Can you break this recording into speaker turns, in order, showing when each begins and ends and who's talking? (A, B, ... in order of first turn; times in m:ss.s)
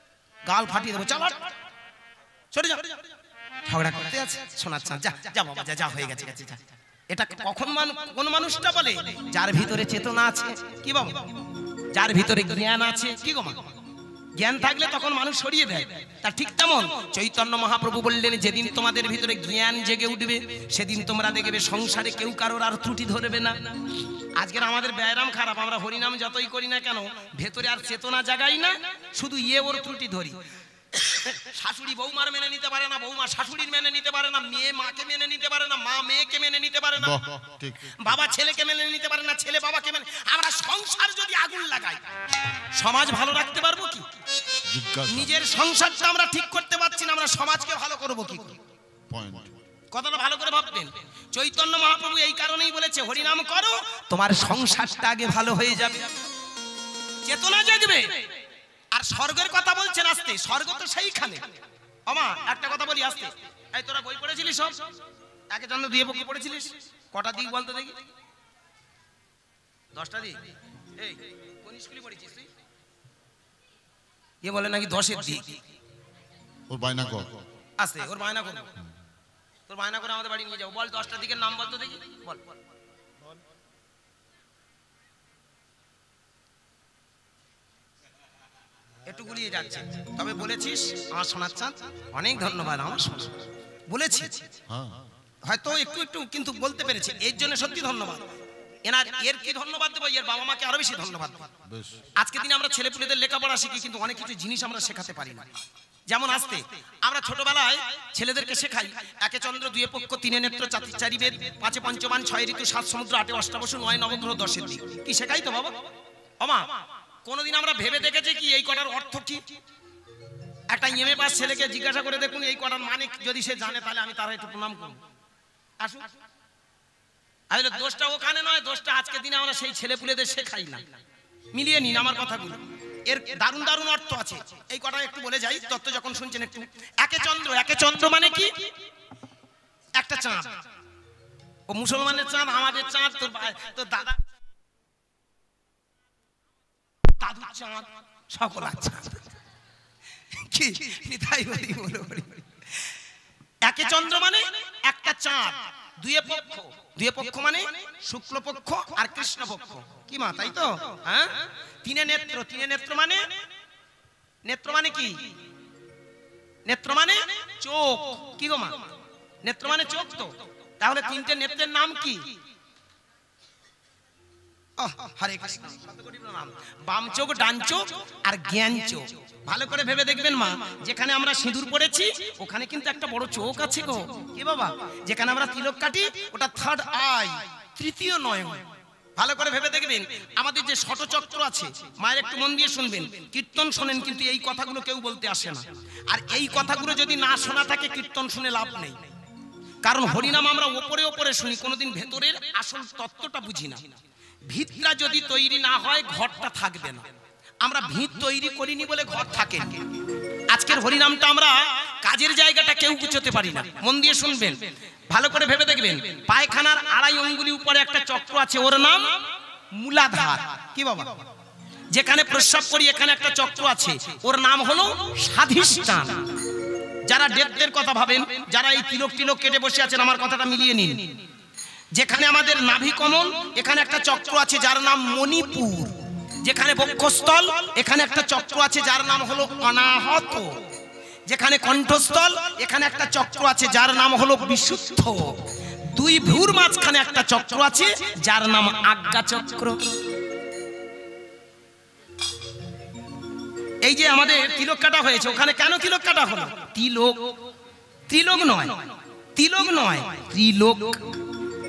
0:00.4-0:01.5 A
0:02.5-0:03.0 A
0:03.7-0:11.3 A
0:11.9-0:13.6 A
0:14.4-0:30.4 A
0:30.9-0:37.2 A
0:37.0-0:38.1 B
0:38.0-0:42.0 A
0:42.8-0:44.1 A
0:44.7-0:45.3 B
0:45.1-0:48.6 A
0:49.1-0:49.5 B
0:49.9-0:56.1 A
0:57.2-0:58.3 A
0:58.9-1:01.5 A
1:02.1-1:04.8 A
1:05.5-1:08.0 A
1:09.9-1:10.4 A
1:11.0-1:12.5 A
1:14.4-1:15.6 A
1:16.7-1:17.4 B
1:17.8-1:18.7 A
1:19.7-1:22.4 A
1:29.1-1:34.4 A
1:34.7-1:35.1 B
1:35.4-1:38.2 A
1:38.8-1:41.5 A
1:41.6-1:42.0 B
1:42.2-1:45.5 A
1:46.1-1:55.7 A
1:56.4-1:56.7 A
1:57.2-1:59.4 A
2:00.7-2:05.0 A
2:05.8-2:06.1 A
2:07.5-2:10.8 A
2:11.5-2:18.7 A
2:20.0-2:20.6 A
2:21.7-2:24.2 A
2:27.1-2:29.3 A
2:30.3-2:32.8 A
2:33.6-2:43.3 A
2:44.4-2:45.3 A
2:46.6-2:48.8 A
2:49.4-2:52.3 A
2:54.8-3:08.6 A
3:09.2-3:19.1 A
3:19.8-3:23.9 A
3:24.5-3:27.1 A
3:27.6-3:29.9 A
3:30.5-3:39.2 A
3:39.7-3:41.2 A
3:41.9-3:46.3 A
3:47.1-3:51.1 A
3:51.9-4:00.6 A
4:01.3-4:10.0 A
4:13.8-4:17.4 A
4:18.1-4:21.2 A